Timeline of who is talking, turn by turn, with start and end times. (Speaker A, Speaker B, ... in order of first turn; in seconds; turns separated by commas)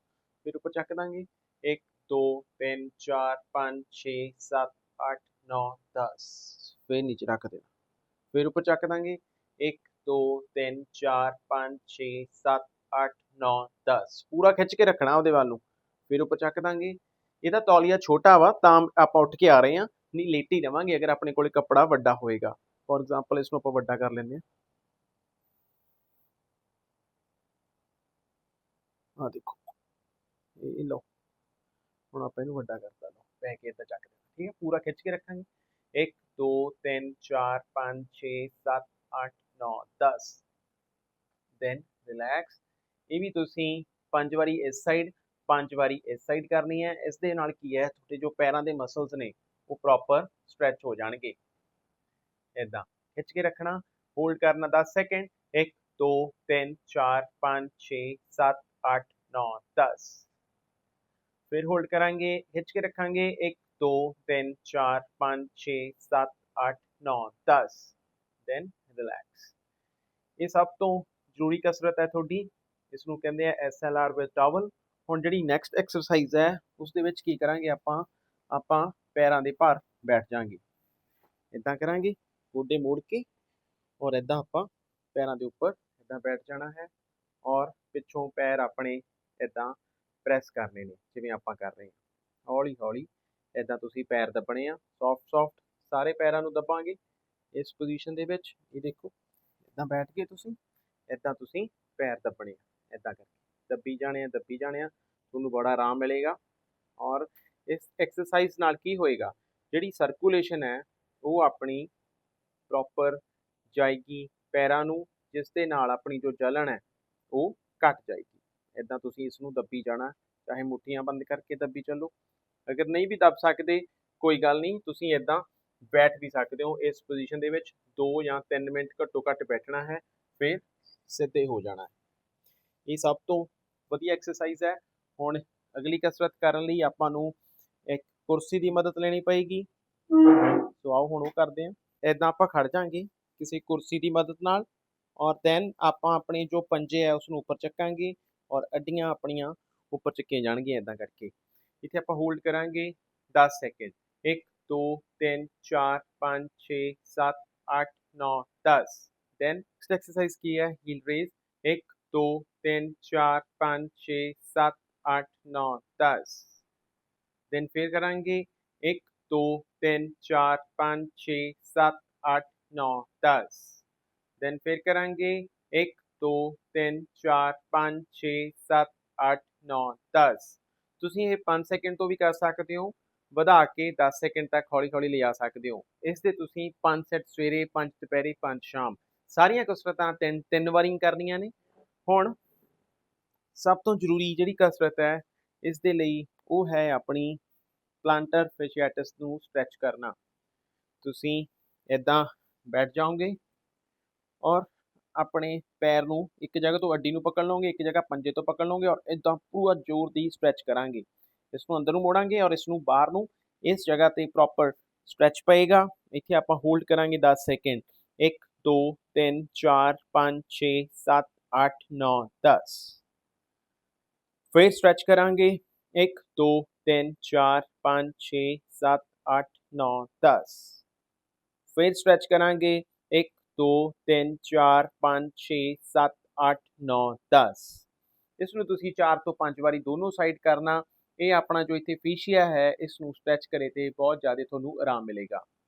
Speaker A: 0.4-7.7, Speaker A: 8.3-24.4, Speaker A: 29.2-29.7, Speaker A: 30.6-31.0, Speaker A: 32.1-40.4, Speaker A: 41.6-51.4, Speaker A: 52.5-60.3, Speaker A: 61.5-69.5, Speaker A: 70.4-80.6, Speaker A: 81.5-83.3, Speaker A: 84.0-86.9, Speaker A: 87.4-97.0, Speaker A: 97.5-99.1, Speaker A: 99.7-100.6, Speaker A: 101.1-106.4, Speaker A: 107.0-111.9, Speaker A: 112.7-122.1, Speaker A: 122.7-131.9, Speaker A: 132.9-137.3, Speaker A: 137.9-144.7, Speaker A: 145.2-166.6, Speaker A: 167.5-173.8, Speaker A: 174.4-191.5, Speaker A: 192.1-192.3, Speaker A: 193.5-197.4, Speaker A: 198.0-200.2, Speaker A: 201.0-203.4, Speaker A: 204.4-223.0, Speaker A: 224.5-230.8, Speaker A: 231.7-237.8, Speaker A: 238.4-245.4